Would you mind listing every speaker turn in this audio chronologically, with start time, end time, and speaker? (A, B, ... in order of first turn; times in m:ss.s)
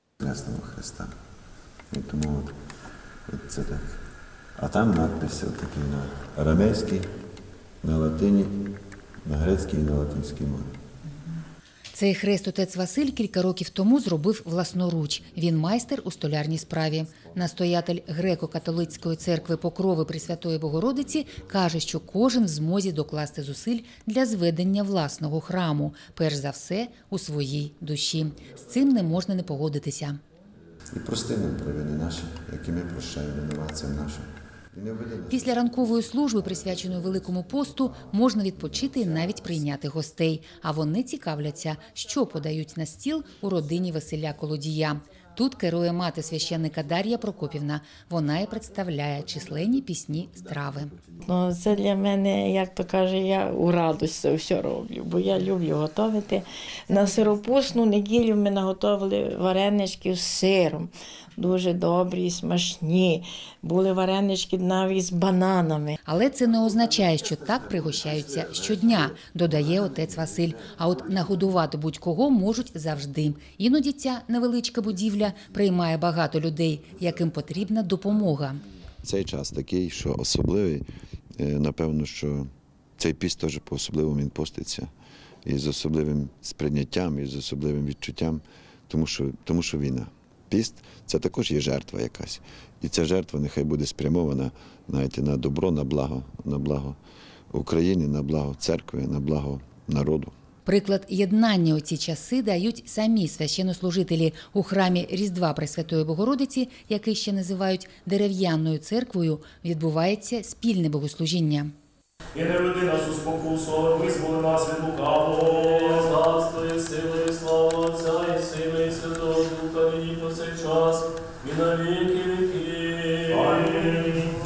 0:00.2-0:01.1 A
0:01.9-0:02.5 A
0:03.3-0:04.0 A
0:04.6-0:07.1 A
0:07.8-0:08.5 A
0:09.2-0:10.7 A
0:11.9-0:30.2 B
0:30.9-0:35.7 A
0:35.3-0:50.9 B
0:38.7-0:39.6 A
0:51.2-1:06.0 C
1:06.0-1:18.6 B
1:19.0-1:20.8 A
1:21.4-1:24.9 A
1:25.4-1:37.0 A
1:37.5-1:40.3 A
1:40.6-1:51.7 B
1:52.4-2:04.0 D